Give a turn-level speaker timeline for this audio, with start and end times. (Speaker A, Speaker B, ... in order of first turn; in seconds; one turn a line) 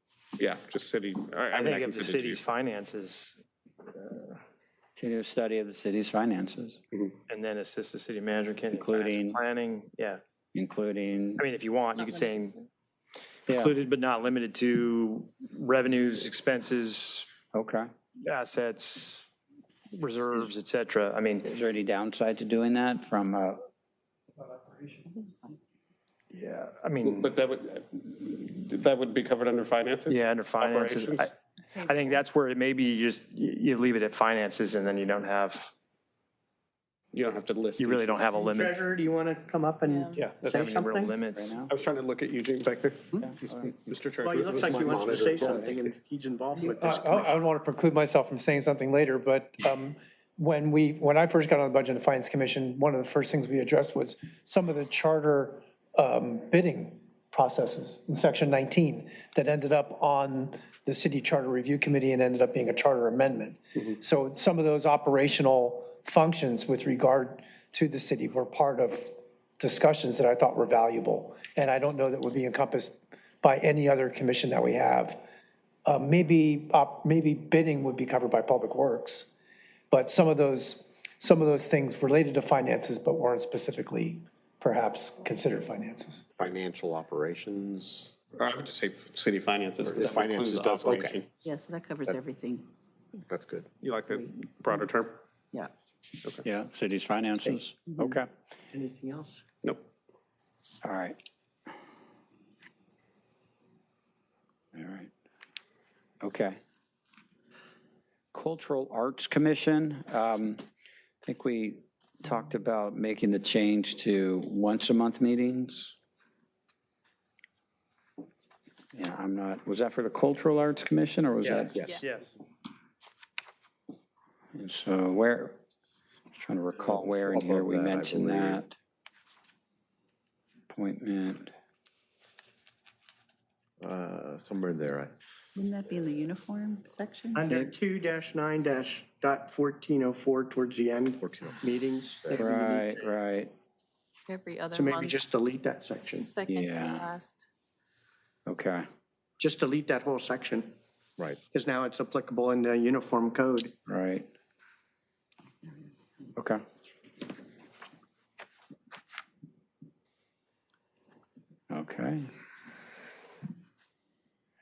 Speaker A: 0.4-2.5
Speaker B: 1.5-3.4
Speaker B: 4.0-4.4
Speaker C: 5.0-6.8
Speaker B: 7.3-10.2
Speaker C: 8.7-9.4
Speaker C: 10.5-11.4
Speaker B: 11.4-12.6
Speaker D: 12.0-12.3
Speaker C: 13.5-13.8
Speaker B: 13.5-17.3
Speaker C: 17.5-17.9
Speaker B: 18.2-19.3
Speaker B: 20.0-21.5
Speaker C: 21.5-23.6
Speaker B: 26.3-27.3
Speaker A: 27.1-31.3
Speaker B: 30.1-31.3
Speaker D: 31.8-32.2
Speaker B: 31.8-35.7
Speaker A: 37.1-38.4
Speaker B: 37.8-38.8
Speaker E: 38.4-41.1
Speaker D: 39.9-40.2
Speaker A: 40.2-40.7
Speaker B: 40.4-41.5
Speaker C: 41.4-41.7
Speaker A: 41.7-45.8
Speaker C: 43.2-43.7
Speaker E: 44.2-47.4
Speaker F: 46.5-75.2
Speaker F: 75.9-79.3
Speaker F: 79.9-86.2
Speaker G: 86.4-88.2
Speaker A: 88.4-91.3
Speaker G: 89.8-91.2
Speaker H: 91.4-92.7
Speaker G: 93.3-93.7
Speaker A: 93.8-95.2
Speaker H: 94.1-94.8
Speaker C: 96.4-98.3
Speaker E: 98.7-99.4
Speaker C: 100.8-101.2
Speaker C: 104.8-105.1
Speaker C: 106.2-106.6
Speaker C: 108.3-110.6
Speaker C: 111.2-115.9
Speaker C: 119.0-121.8
Speaker B: 121.5-122.3
Speaker C: 124.5-125.6
Speaker C: 126.4-128.7
Speaker G: 126.8-128.7
Speaker C: 130.7-131.5
Speaker G: 133.8-135.1
Speaker H: 135.6-137.4
Speaker E: 137.4-143.1
Speaker G: 141.2-141.6
Speaker C: 142.4-143.5
Speaker D: 144.3-145.2
Speaker E: 144.7-146.3
Speaker D: 146.0-147.5
Speaker C: 146.5-147.1
Speaker C: 148.5-148.8
Speaker E: 149.4-150.8
Speaker E: 151.5-153.7
Speaker C: 153.9-154.3
Speaker C: 161.7-162.3